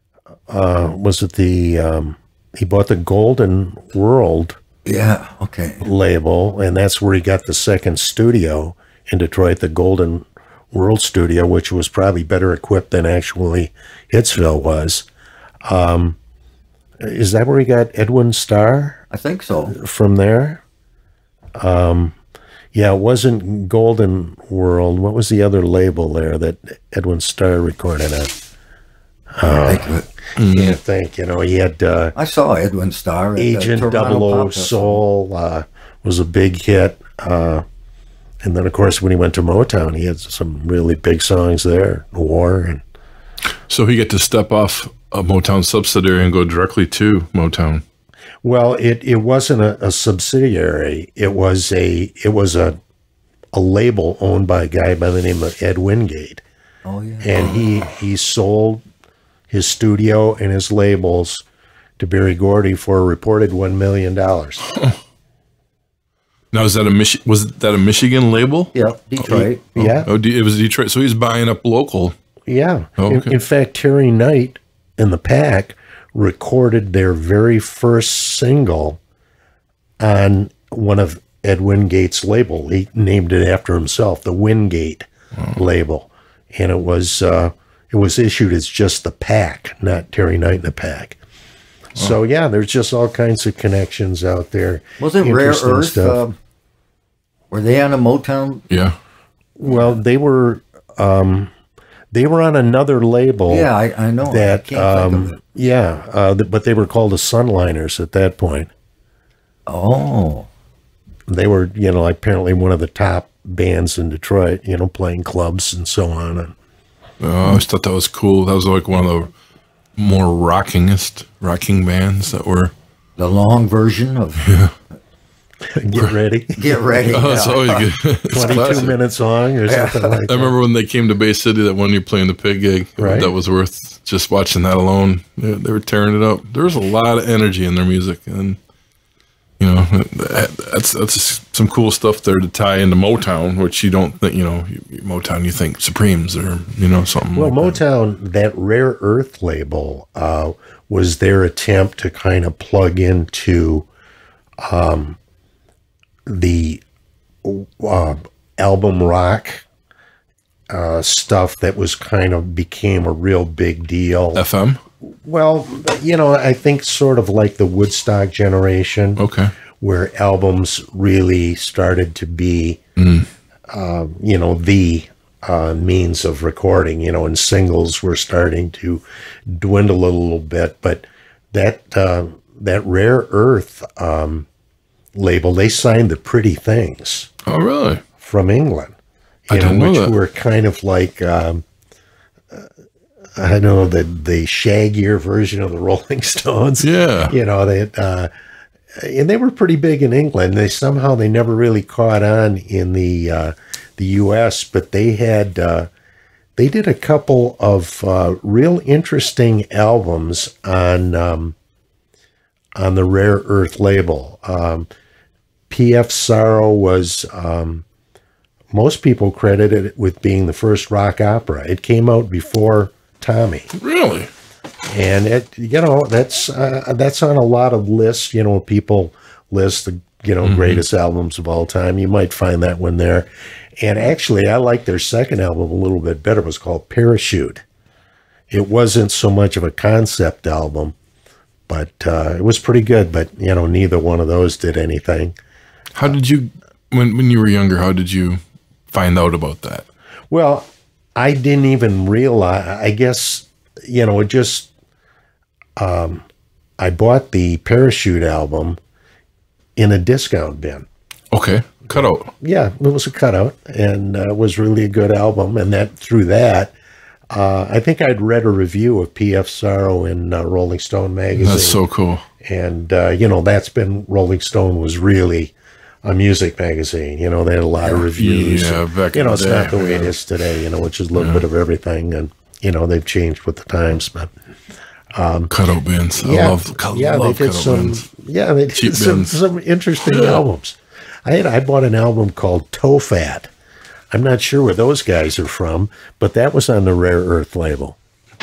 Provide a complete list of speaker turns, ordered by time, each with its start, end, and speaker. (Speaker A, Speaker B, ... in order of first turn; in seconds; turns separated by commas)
Speaker A: 0.5-4.6, Speaker B: 4.8-5.9, Speaker A: 5.8-15.1, Speaker A: 15.7-16.2, Speaker A: 17.0-19.0, Speaker B: 19.1-19.8, Speaker A: 19.7-20.6, Speaker A: 21.6-22.1, Speaker A: 22.7-28.3, Speaker A: 29.4-32.1, Speaker B: 29.6-30.0, Speaker C: 30.4-30.8, Speaker B: 32.1-35.0, Speaker A: 33.4-37.6, Speaker A: 38.4-42.8, Speaker C: 43.7-47.8, Speaker A: 48.4-52.8, Speaker A: 53.5-56.4, Speaker B: 56.8-57.4, Speaker A: 57.2-58.8, Speaker A: 59.5-61.4, Speaker A: 62.0-64.6, Speaker C: 66.5-72.2, Speaker B: 68.7-69.6, Speaker A: 69.8-70.1, Speaker A: 72.5-79.0, Speaker C: 73.0-73.3, Speaker A: 80.0-91.2, Speaker A: 92.0-96.2, Speaker B: 95.0-96.3, Speaker B: 97.5-98.6, Speaker C: 98.7-99.0, Speaker A: 99.6-101.5, Speaker A: 102.1-103.7, Speaker B: 103.5-105.4, Speaker A: 104.2-108.7, Speaker B: 109.7-110.5, Speaker A: 111.3-116.5, Speaker C: 117.2-119.3, Speaker C: 120.0-122.7, Speaker B: 123.2-124.5, Speaker C: 124.4-124.7, Speaker A: 125.7-127.5, Speaker B: 126.5-127.8, Speaker C: 127.1-128.9, Speaker A: 128.3-130.5, Speaker B: 128.5-128.8, Speaker B: 129.7-130.2, Speaker C: 130.3-138.6, Speaker A: 133.0-133.3, Speaker C: 139.6-147.8, Speaker A: 147.3-153.9, Speaker A: 154.6-155.2, Speaker A: 156.2-156.8, Speaker A: 157.4-159.6, Speaker A: 160.7-164.4, Speaker C: 164.3-164.8, Speaker A: 165.2-169.2, Speaker C: 169.2-169.5, Speaker A: 169.8-172.8, Speaker C: 173.0-173.3, Speaker A: 173.7-184.5, Speaker A: 185.1-187.3, Speaker C: 187.5-188.0, Speaker A: 188.2-188.9, Speaker A: 189.5-191.6, Speaker C: 189.5-190.1, Speaker A: 193.3-198.3, Speaker C: 196.8-197.3, Speaker A: 199.0-205.9, Speaker A: 206.6-211.6, Speaker A: 212.8-214.9, Speaker A: 215.7-217.8, Speaker A: 218.7-223.7, Speaker C: 223.8-224.3, Speaker A: 224.9-237.6, Speaker C: 230.4-230.8, Speaker A: 238.5-240.9, Speaker A: 241.7-245.3, Speaker C: 245.9-248.4, Speaker C: 248.9-249.8, Speaker A: 250.3-254.7, Speaker A: 255.8-256.2, Speaker A: 256.8-258.8, Speaker A: 259.8-260.9, Speaker C: 261.3-262.3, Speaker A: 261.9-266.7, Speaker A: 267.3-271.8, Speaker C: 271.3-272.2, Speaker A: 272.4-275.5, Speaker A: 276.0-284.3, Speaker C: 278.1-280.1, Speaker C: 281.1-281.4, Speaker A: 285.1-285.5, Speaker C: 285.5-288.0, Speaker A: 286.2-293.5, Speaker C: 288.8-289.4, Speaker C: 290.1-290.4, Speaker A: 294.1-298.0